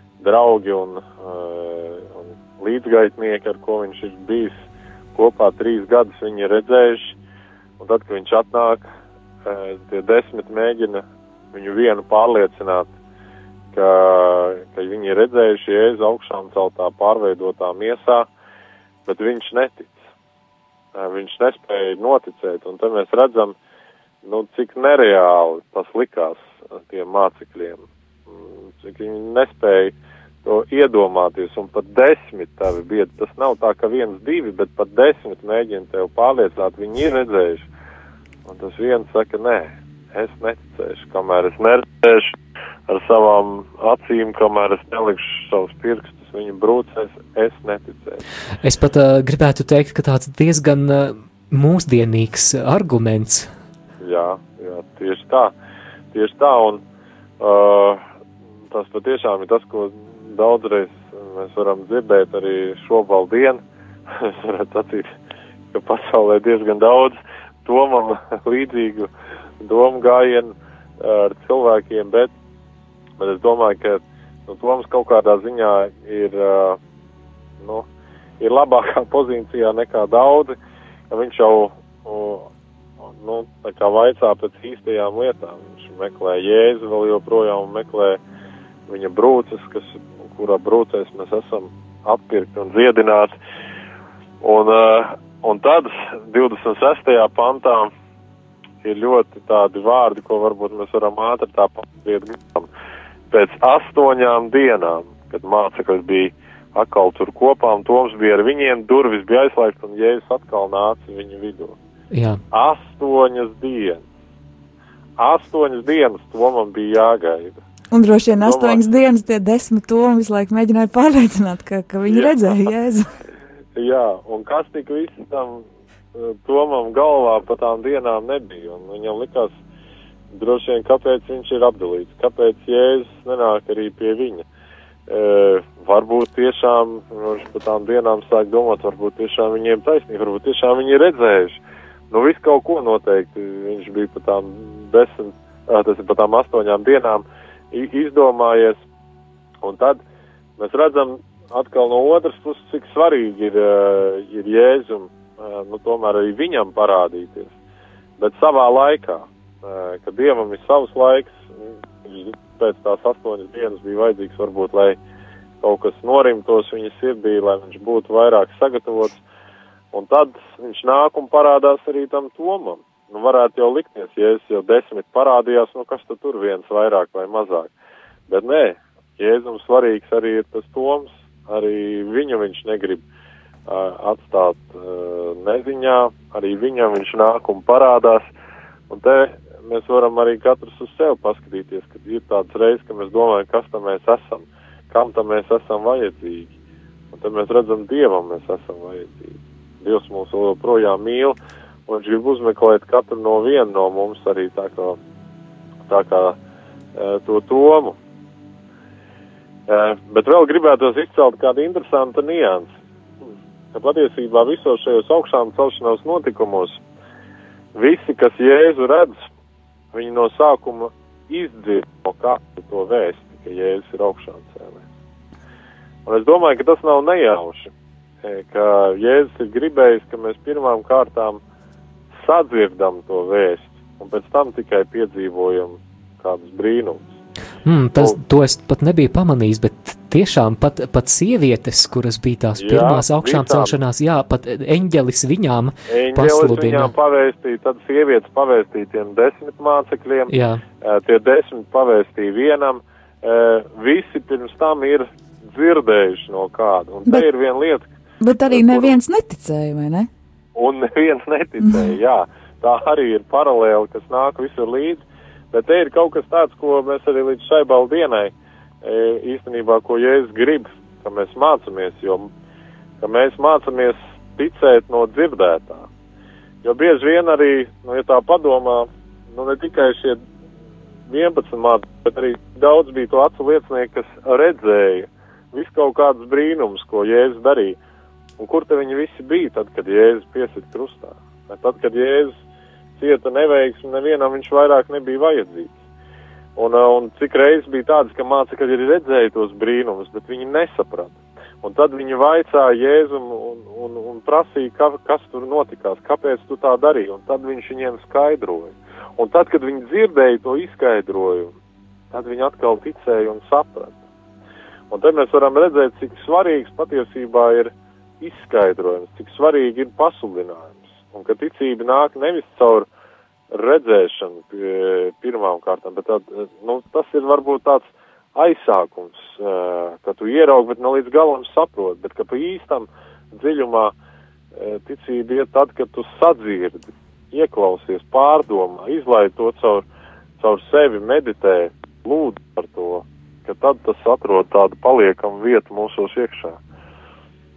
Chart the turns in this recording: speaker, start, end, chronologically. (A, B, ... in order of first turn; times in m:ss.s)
0:00.2-0:04.6 A
0:05.2-0:07.2 A
0:07.8-0:08.8 A
0:09.4-0:12.9 A
0:13.7-0:18.3 A
0:19.1-0:20.0 A
0:21.0-0:23.6 A
0:24.2-0:37.7 A
0:38.5-0:42.3 A
0:42.9-0:48.2 A
0:48.6-0:53.5 B
0:54.0-0:55.5 A
0:56.1-0:56.8 A
0:57.4-0:58.0 A
0:58.7-1:03.6 A
1:04.1-1:05.1 A
1:05.7-1:09.1 A
1:09.6-1:12.3 A
1:13.2-1:16.8 A
1:17.6-1:17.9 A
1:18.4-1:20.6 A
1:21.1-1:22.5 A
1:23.2-1:28.2 A
1:28.9-1:33.3 A
1:34.4-1:37.9 A
1:38.8-1:42.7 A
1:43.3-1:51.8 A
1:52.1-1:52.4 B
1:52.5-1:54.0 A
1:55.2-1:57.6 A
1:57.9-2:03.1 C
1:58.4-1:58.8 A
2:03.8-2:09.5 A
2:10.3-2:14.4 A
2:15.1-2:21.6 A
2:22.1-2:28.8 A
2:29.6-2:30.0 A
2:30.6-2:37.5 A
2:38.2-2:41.4 A
2:42.0-2:45.0 A
2:45.6-2:49.2 A
2:49.9-2:57.7 A
2:58.3-3:03.0 A
3:03.7-3:08.2 A
3:08.9-3:16.5 A
3:17.1-3:21.4 A
3:21.9-3:25.0 A
3:25.9-3:26.4 A
3:27.0-3:28.0 A
3:29.7-3:32.7 A
3:33.7-3:36.8 A
3:37.7-3:39.1 A
3:39.9-3:44.8 A
3:46.1-3:47.7 A
3:48.2-3:51.4 A
3:52.1-3:57.1 A
3:57.6-4:06.9 B
4:02.6-4:03.8 A
4:05.9-4:17.9 A
4:10.3-4:10.6 B
4:18.2-4:20.1 C
4:18.5-4:19.0 A
4:20.6-4:32.3 A
4:21.6-4:21.9 C
4:33.0-4:35.9 A
4:36.6-4:40.2 A
4:41.1-4:47.8 A
4:48.4-4:52.3 A
4:53.0-4:55.7 A
4:56.6-5:11.6 A
5:12.1-5:13.9 A
5:14.9-5:22.9 A
5:23.5-5:33.9 A
5:34.6-5:39.8 A
5:40.4-5:46.6 A